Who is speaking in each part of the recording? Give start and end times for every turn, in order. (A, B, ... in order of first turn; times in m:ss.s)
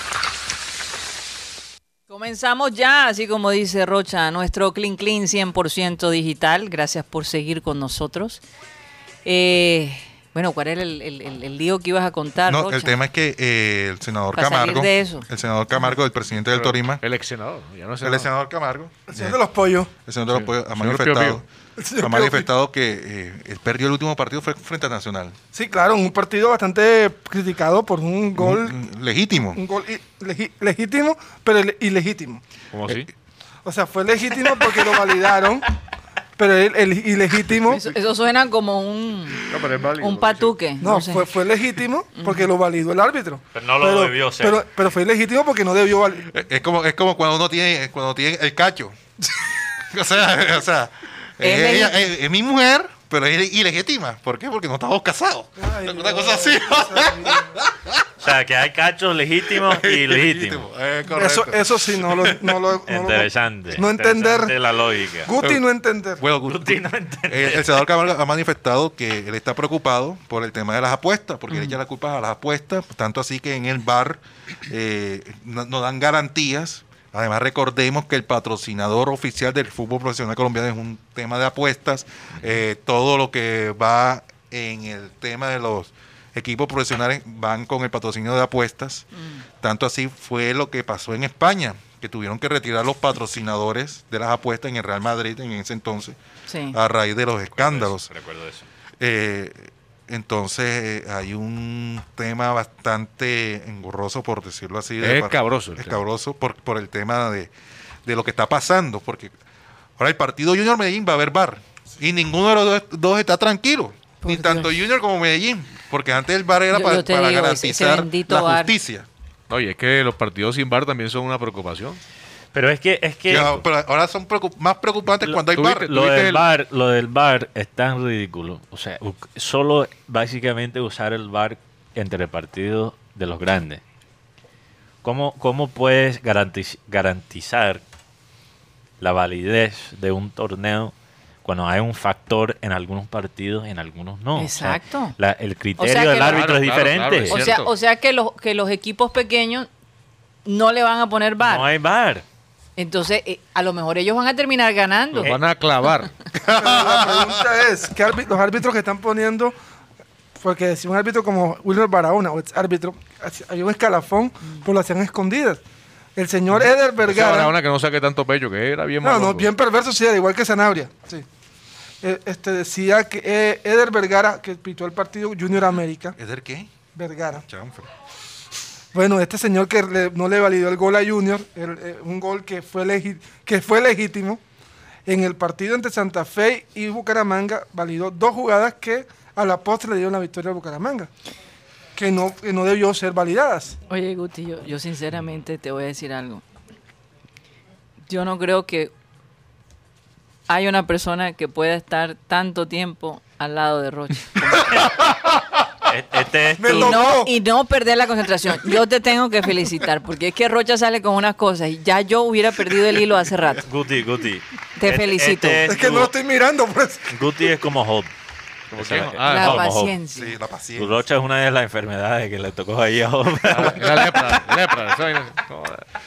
0:02.1-0:08.4 A
0:09.2-0:13.0 A
0:12.5-0:17.0 B
0:14.4-0:15.3 A
0:16.4-0:18.3 C
0:18.0-0:19.4 B
0:19.1-0:19.9 D
0:20.0-0:21.4 B
0:20.3-0:21.4 C
0:21.8-0:22.5 D
0:22.0-0:25.4 B
0:25.5-0:28.8 D
0:28.4-0:29.6 B
0:29.6-0:32.4 D
0:32.7-0:33.1 C
0:33.6-0:35.7 D
0:36.4-0:37.8 D
0:37.7-0:41.3 A
0:39.4-0:40.6 C
0:40.8-0:46.3 D
0:42.2-0:42.5 A
0:43.6-0:44.6 E
0:46.3-0:49.0 B
0:49.9-0:58.1 B
0:51.4-0:52.1 A
0:55.6-0:57.5 D
0:58.2-1:00.7 E
0:59.5-1:02.6 B
1:01.1-1:04.5 D
1:02.9-1:05.4 E
1:05.2-1:06.2 D
1:06.2-1:29.1 B
1:06.5-1:07.8 E
1:29.1-1:29.4 A
1:29.6-1:36.2 B
1:36.5-1:36.8 A
1:36.7-1:38.1 B
1:37.6-1:38.7 E
1:39.0-1:47.5 B
1:45.0-1:46.0 C
1:48.0-1:49.4 B
1:50.0-1:59.1 B
1:54.2-1:54.9 A
1:56.7-1:58.7 A
1:59.5-2:02.0 C
2:02.5-2:03.6 E
2:03.3-2:06.0 B
2:05.3-2:13.8 E
2:05.6-2:06.4 C
2:15.0-2:17.8 E
2:19.0-2:20.9 E
2:21.4-2:27.4 E
2:24.4-2:25.2 A
2:25.8-2:26.4 A
2:26.2-2:27.7 C
2:27.3-2:29.7 A
2:30.5-2:31.7 A
2:31.4-2:32.2 E
2:32.8-2:35.4 A
2:35.2-2:36.1 C
2:36.3-2:37.5 B
2:36.5-2:39.6 D
2:40.4-2:45.6 D
2:46.2-2:47.6 D
2:46.5-2:49.5 C
2:49.0-2:51.2 D
2:52.0-2:56.2 D
2:56.2-2:56.7 B
2:57.0-2:57.4 D
2:57.3-2:57.9 B
2:58.9-3:04.4 D
3:05.1-3:11.1 D
3:12.0-3:13.8 D
3:13.9-3:16.4 A
3:18.1-3:18.9 A
3:20.5-3:24.9 A
3:24.7-3:25.1 E
3:25.8-3:27.1 E
3:26.6-3:27.3 D
3:26.7-3:33.6 A
3:33.6-3:36.1 E
3:34.8-3:35.7 A
3:35.7-3:37.1 D
3:37.1-3:38.1 E
3:38.7-3:39.8 C
3:38.8-3:40.0 E
3:39.2-3:40.4 A
3:40.1-3:41.0 B
3:40.8-3:44.3 E
3:43.5-3:45.8 C